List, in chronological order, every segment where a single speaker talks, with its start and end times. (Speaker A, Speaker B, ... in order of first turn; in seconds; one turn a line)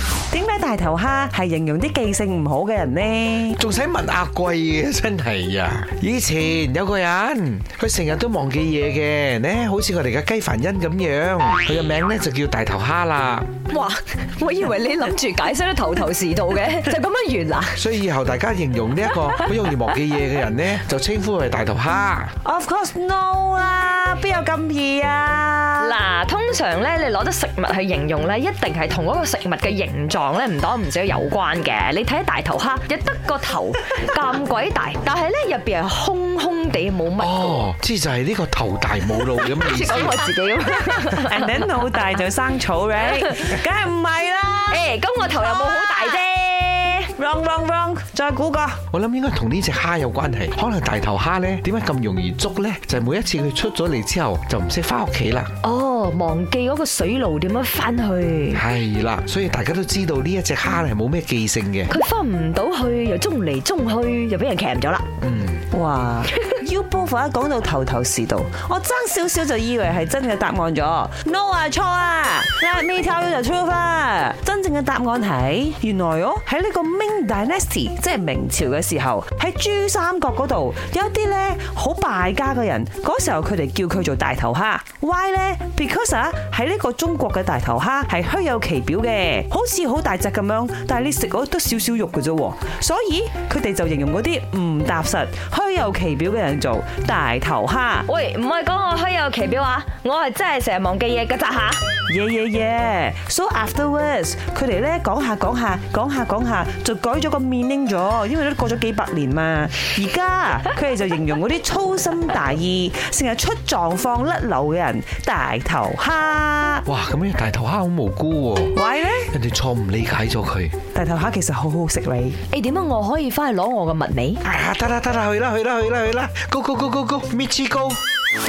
Speaker A: 0.3-3.6
Speaker B: 3.5-13.6
Speaker C: 13.7-17.8
Speaker B: 17.8-22.3
Speaker A: 22.4-26.0
Speaker C: 25.8-37.6
Speaker B: 37.2-40.3
Speaker C: 39.1-41.7
Speaker A: 41.1-46.2
Speaker C: 44.7-47.1
Speaker A: 47.1-48.8
Speaker B: 48.9-55.5
Speaker C: 55.6-58.6
Speaker B: 58.5-61.9
Speaker C: 61.9-65.1
Speaker B: 65.2-65.7
Speaker A: 65.7-98.1
Speaker C: 98.1-101.8
Speaker A: 102.1-116.8
Speaker B: 116.9-118.7
Speaker A: 118.7-119.3
Speaker B: 119.3-120.8
Speaker A: 120.9-122.4
Speaker C: 122.5-124.4
Speaker B: 124.4-128.0